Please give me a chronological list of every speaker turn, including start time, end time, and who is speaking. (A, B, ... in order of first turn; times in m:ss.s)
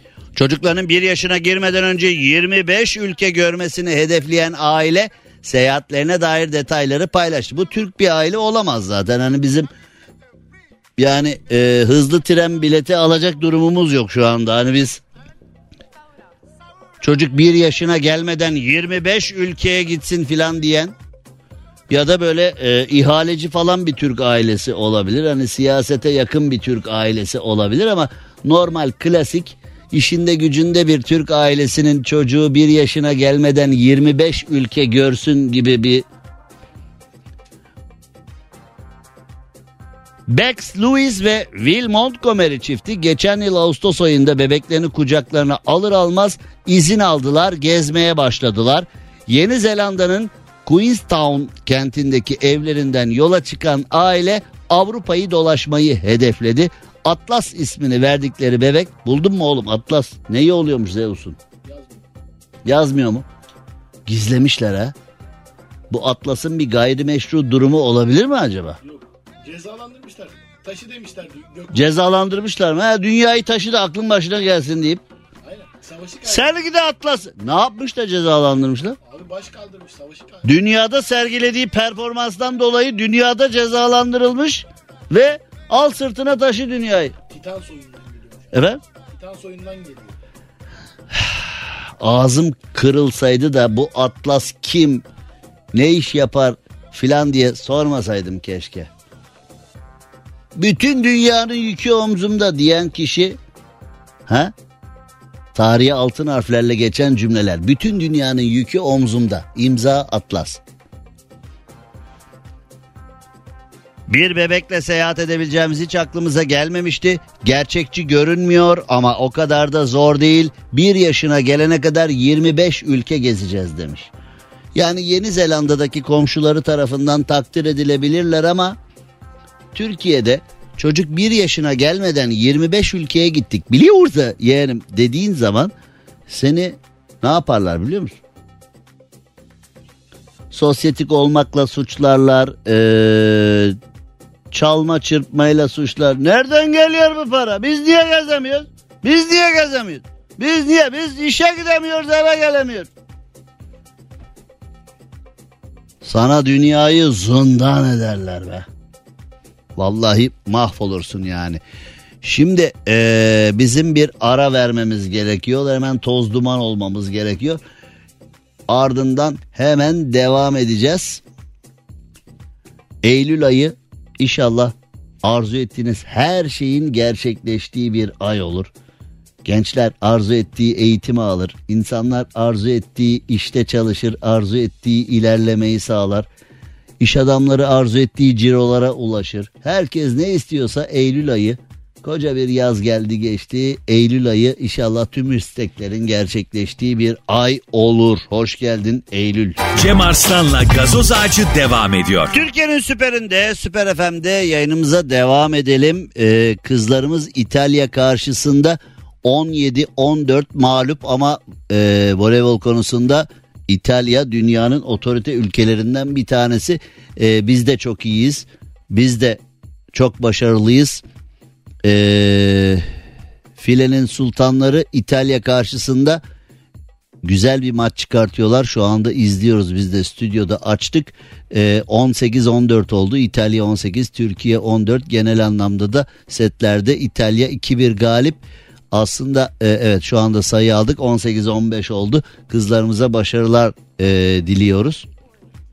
0:00.4-0:09.7 A
0:11.0-0:15.0 A
0:17.0-0:21.0 A
0:21.9-0:36.0 A
0:40.3-1:01.4 A
1:01.6-1:02.0 B
1:02.6-1:03.3 A
1:04.0-1:04.9 A
1:05.9-1:08.8 A
1:08.8-1:11.9 B
1:11.7-1:15.0 A
1:15.4-1:16.5 B
1:16.2-1:19.0 A
1:19.0-1:20.6 B
1:20.4-1:27.1 A
1:27.3-1:28.5 B
1:28.5-1:28.8 A
1:29.1-1:30.2 B
1:31.1-1:31.4 A
1:32.0-1:35.0 A
1:35.7-1:38.9 A
1:40.6-1:43.4 A
1:44.3-1:44.5 A
1:45.5-1:50.6 A
1:54.1-2:04.1 A
2:04.7-2:08.8 A
2:09.7-2:15.7 A
2:16.3-2:18.2 A
2:20.5-2:23.8 A
2:24.5-2:32.9 A
2:36.0-2:38.7 A
2:39.8-2:41.6 A
2:42.2-2:47.6 A
2:48.7-2:51.2 A
2:53.0-2:58.7 A
2:59.4-3:06.3 A
3:07.0-3:19.6 A
3:19.7-3:22.3 C
3:22.3-3:39.4 A
3:39.9-3:41.0 A
3:41.8-3:42.9 A
3:43.6-3:46.2 A
3:47.2-4:05.0 A